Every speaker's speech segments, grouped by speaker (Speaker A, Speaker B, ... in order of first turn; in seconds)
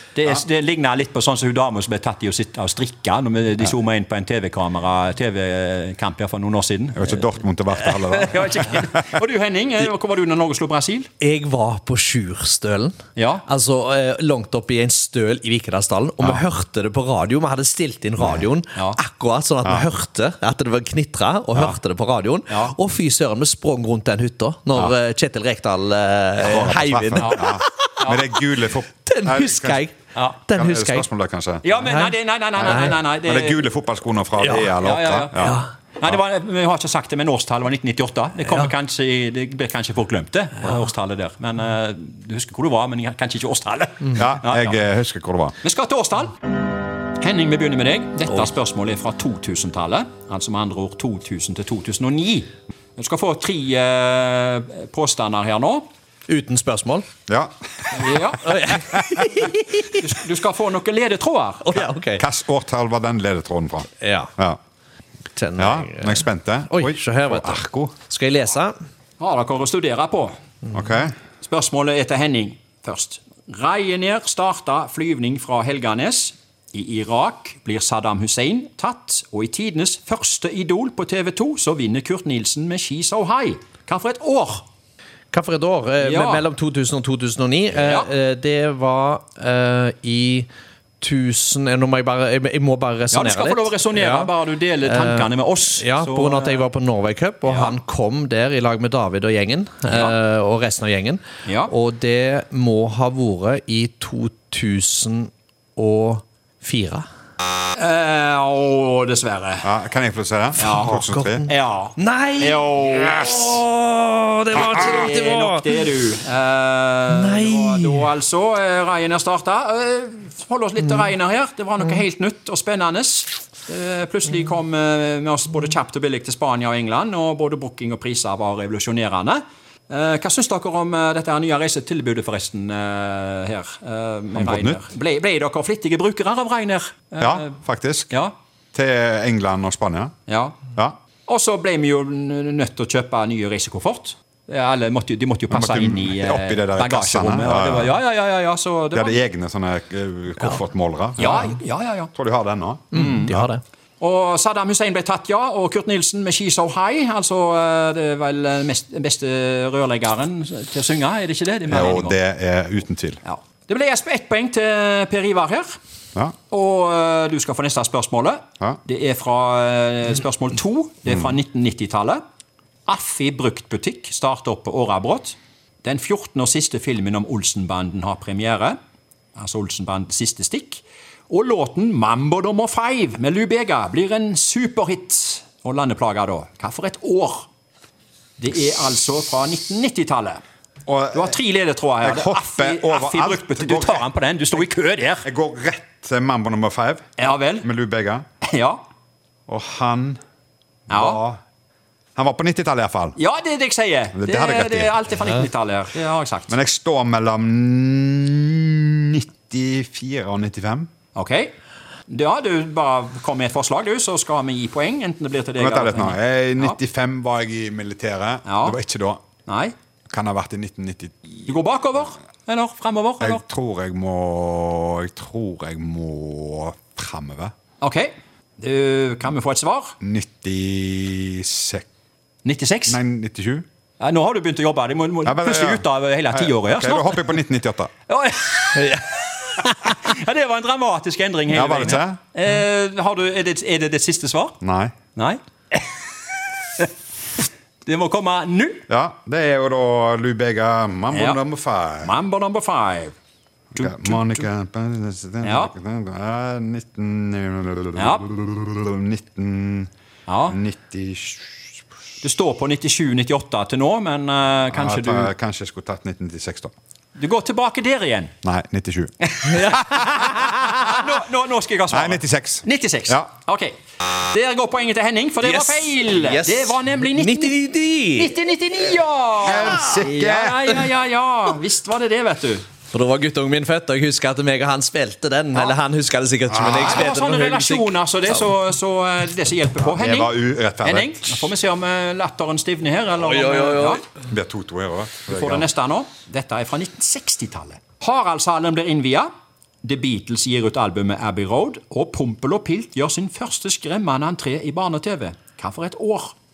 Speaker A: 0.1-7.2, 7.7-11.1, 13.2-13.4, 22.5-22.7, 27.2-28.3, 31.6-33.6, 34.8-44.8, 45.6-46.3, 47.1-55.9, 57.9-58.7, 59.9-61.7, 69.2-70.4, 71.4-84.6, 86.0-86.4, 87.7-88.1, 93.1-96.6, 97.5-97.8, 99.9-100.2, 101.5-101.7, 107.8-109.7, 110.6-110.9, 111.5-113.6, 114.5-137.5, 140.3-140.6, 141.3-149.2, 151.2-152.1, 152.9-153.3, 154.0-162.2, 163.2-165.7, 166.5-172.2, 172.9-178.8, 179.4-187.5, 188.4-190.4, 191.1-195.3, 197.2-197.7, 198.4-198.8, 200.9-201.2, 203.2-206.5, 211.1-211.5, 212.1-216.8, 218.4-218.8, 219.4-219.7, 221.5-223.4, 227.8-229.9, 232.4-233.0, 234.0-237.4, 238.1-244.6, 245.1-245.9, 247.8-248.8, 251.1-251.4, 252.0-253.1, 253.8-254.4, 255.4-255.7, 257.9-258.2, 260.3-260.6, 262.2-265.3, 267.1-268.3, 269.3-273.7, 274.3-277.6, 278.1-282.6, 286.6-294.0, 295.3-299.3, 299.8-306.3
Speaker B: 7.0-9.2, 26.4-29.8, 30.5-31.6, 32.6-36.2, 44.1-45.5, 57.3-58.2, 62.2-64.6, 65.6-67.9, 70.7-71.1, 109.6-111.5, 134.3-134.8, 137.2-138.1, 138.7-140.1, 145.5-148.0, 148.9-151.5, 152.1-153.5, 161.7-163.2, 171.1-171.3, 190.8-191.4, 192.0-194.0, 195.2-197.0, 197.6-198.2, 199.5-200.2, 200.9-201.4, 202.2-203.2, 204.1-204.9, 206.5-210.9, 215.6-219.2, 220.1-221.4, 223.2-227.5, 230.0-231.8, 232.9-233.7, 235.2-237.9, 241.5-242.2, 244.6-244.9, 248.9-252.1, 253.8-259.9, 260.5-261.7, 264.7-266.7, 268.4-270.7, 271.9-273.3, 279.4-280.6, 286.5-287.0, 289.8-291.5, 294.3-295.7
Speaker C: 11.2-27.9, 29.0-29.9, 30.5-31.1, 31.8-33.0, 34.4-34.8, 35.4-35.7, 56.3-57.1, 58.4-59.8, 61.6-62.2, 64.0-64.3, 65.3-68.8, 85.3-90.5, 91.0-94.3, 94.8-107.0, 110.8-115.7, 117.1-118.1, 152.9-153.6, 275.4-278.3, 282.9-287.9, 293.2-294.0